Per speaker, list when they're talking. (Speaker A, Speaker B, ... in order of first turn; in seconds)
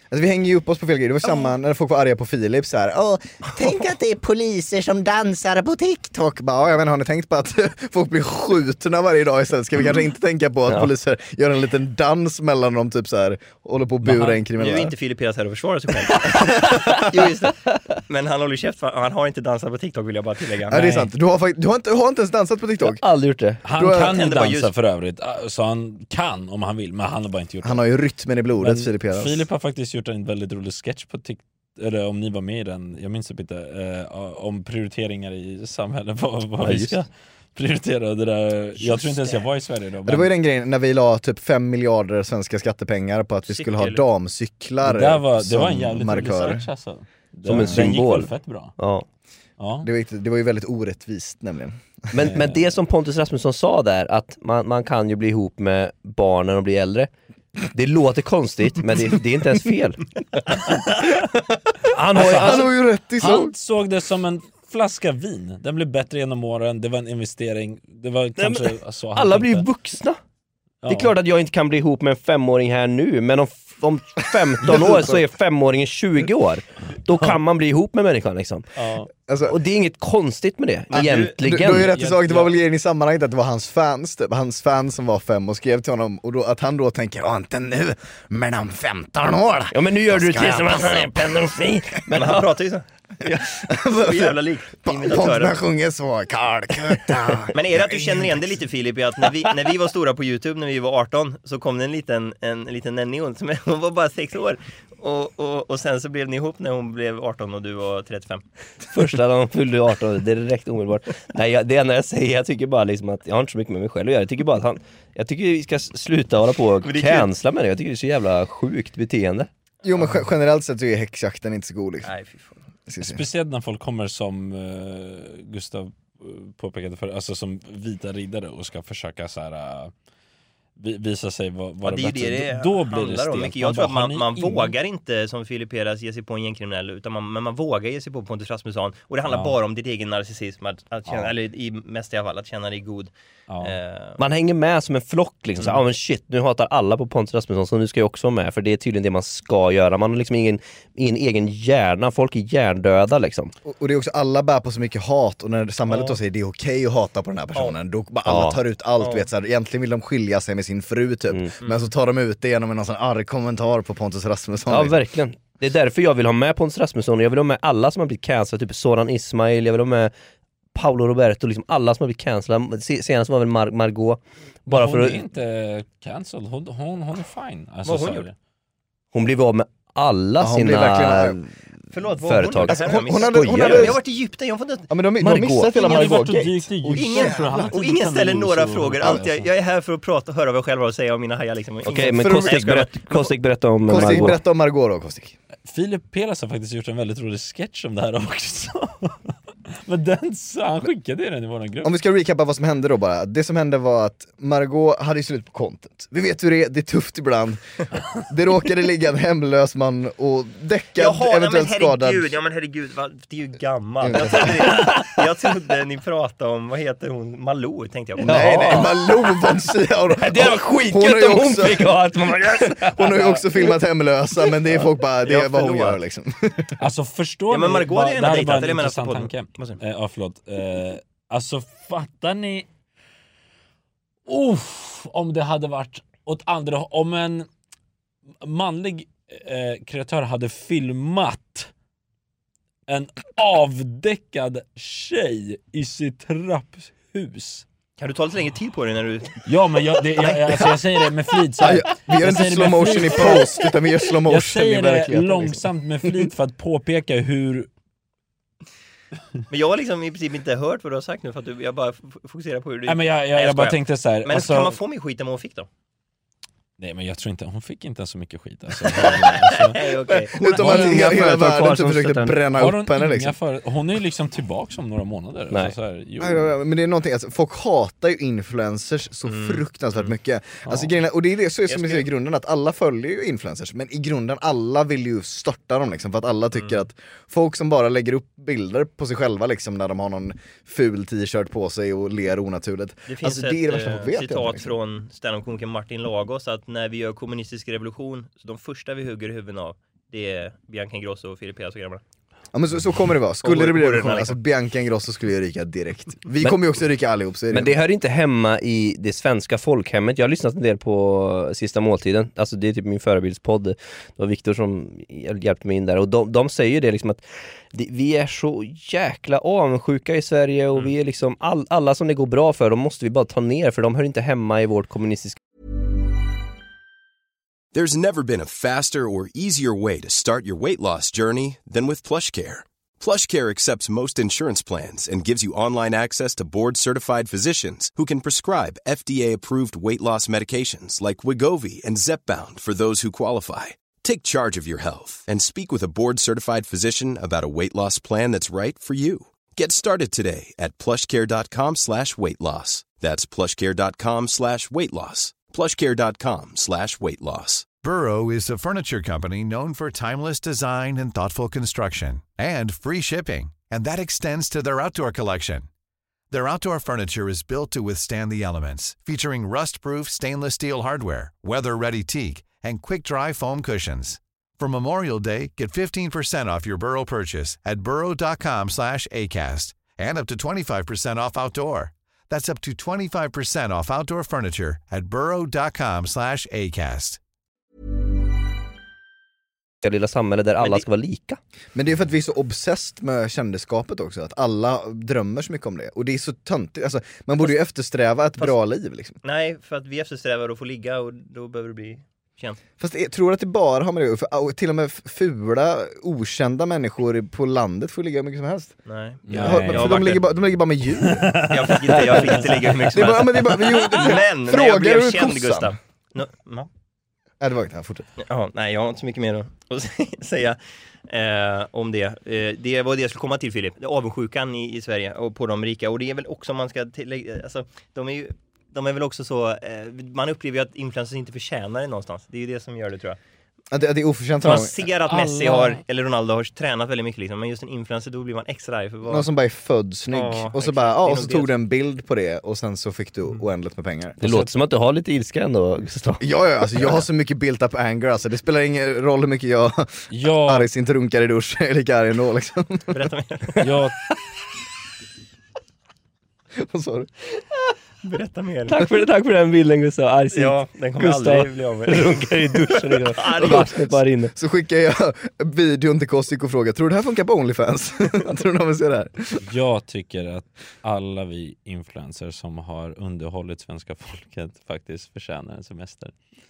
Speaker A: 0.1-14.9, 16.3-16.9, 20.7-23.0, 23.7-24.2, 27.6-29.5, 40.1-46.7, 47.5-48.0, 49.8-51.8, 62.2-63.5, 74.6-75.2, 79.3-79.6, 80.9-91.5, 93.2-98.3, 119.8-122.1, 122.9-123.2, 153.7-165.0, 180.4-181.4, 182.6-184.0, 184.9-187.8, 192.1-192.6, 193.9-195.4, 201.8-207.6, 208.1-212.4, 214.0-214.8, 218.2-226.8, 251.6-256.2, 270.3-273.4, 276.2-294.8, 302.5-307.8, 391.8-399.2, 402.8-408.8, 409.3-411.4, 412.9-415.7, 417.4-418.1, 433.7-434.9, 439.1-444.4, 446.2-453.0, 456.6-457.1, 463.4-469.5
Speaker B: 1.2-1.6, 14.5-21.1, 24.1-24.7, 38.8-39.4, 43.5-44.0, 80.9-81.4, 92.1-92.8, 94.0-95.6, 97.5-108.4, 116.8-117.3, 122.0-122.7, 131.8-144.2, 155.9-156.2, 159.0-159.3, 161.6-161.9, 177.8-178.3, 181.9-184.9, 185.8-186.2, 186.9-193.3, 211.0-218.9, 225.2-226.0, 227.5-229.8, 248.0-249.5, 250.2-250.6, 259.5-265.7, 268.9-270.7, 279.3-280.1, 281.7-282.1, 293.1-302.0, 303.4-304.4, 399.2-402.6, 408.9-410.3, 411.4-416.7, 418.2-433.2, 434.4-439.3, 440.1-441.5, 452.9-453.6, 458.0-458.9, 460.3-463.7
Speaker C: 14.1-14.4, 23.6-27.8, 28.6-40.3, 44.8-48.8, 49.6-49.9, 52.2-52.6, 62.1-69.7, 70.8-71.1, 78.8-79.1, 81.9-82.5, 123.0-129.9, 130.8-134.8, 139.3-139.6, 141.1-141.3, 143.5-143.8, 174.7-178.3, 185.8-189.5, 195.7-201.9, 226.8-232.7, 234.3-237.5, 238.4-241.7, 242.9-247.7, 249.5-257.7, 262.9-264.8, 266.8-270.0, 270.6-271.0, 272.6-276.5, 280.7-280.9, 409.3-410.2, 411.0-413.0, 413.8-414.0, 435.1-435.8, 450.1-450.7, 453.6-454.0, 469.4-476.2
Speaker D: 22.8-23.6, 36.6-37.0, 47.5-49.1, 52.1-57.1, 57.7-60.0, 61.9-62.7, 68.4-70.2, 70.8-78.7, 79.5-82.0, 89.7-92.5, 108.9-119.5, 144.2-153.5, 158.3-158.6, 164.7-170.1, 170.8-175.2, 179.1-181.5, 182.1-184.0, 185.2-185.8, 191.8-194.4, 218.2-219.3, 220.2-223.7, 270.6-272.4, 307.5-325.4, 389.8-391.4, 444.2-446.2, 458.7-464.3
Speaker E: 327.7-357.7
Speaker F: 357.8-365.7, 366.3-387.2